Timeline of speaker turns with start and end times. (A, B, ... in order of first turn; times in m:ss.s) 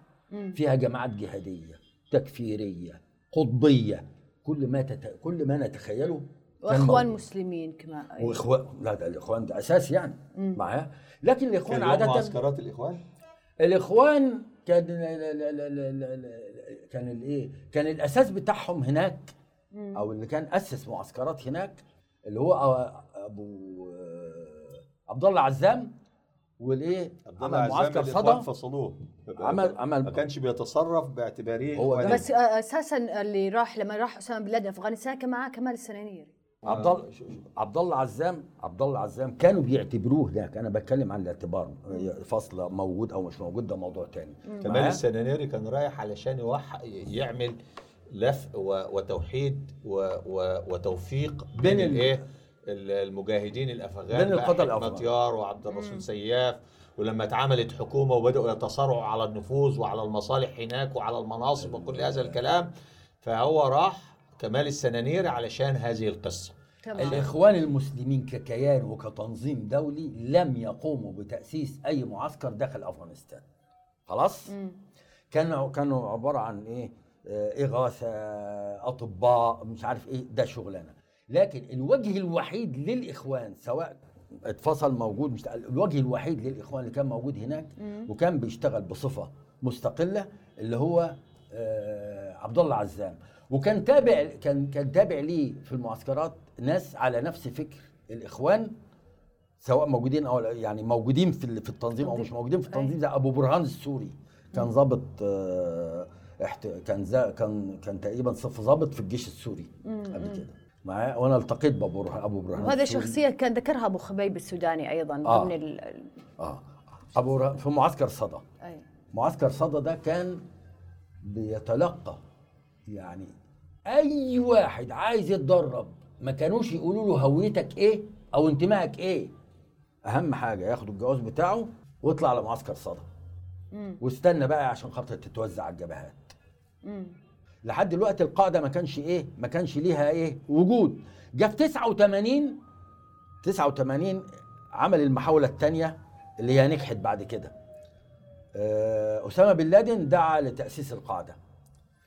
0:00.5-0:07.2 A
0:06.6-0:08.3 B
0:08.2-0:12.4 A
0:11.7-0:13.0 C
0:13.6-0:19.3 A
0:19.9-0:25.9 A
0:26.6-0:28.5 A
0:27.3-0:32.2 C
0:29.4-0:30.2 A
0:31.7-0:32.3 A
0:32.1-0:36.3 B
0:36.6-0:45.0 A
0:36.6-0:37.3 C
0:44.6-0:47.6 C
0:48.1-1:02.7 C
0:51.6-0:52.2 A
0:54.1-0:55.1 A
1:01.6-1:02.4 A
1:03.2-1:07.2 C
1:06.8-1:07.1 B
1:07.0-1:13.4 A
1:14.1-1:14.6 A
1:15.3-1:38.7 A
1:39.6-1:53.2 A
1:42.0-1:42.9 B
1:50.0-1:50.3 B
1:52.6-1:56.0 B
1:55.2-1:55.5 A
1:56.4-1:58.4 A
1:59.1-2:00.4 A
2:01.2-2:02.2 A
2:02.9-2:03.3 A
2:03.9-2:09.3 A
2:10.0-2:13.1 A
2:14.0-2:16.3 A
2:17.6-2:22.6 A
2:23.4-2:27.5 A
2:28.5-2:31.4 A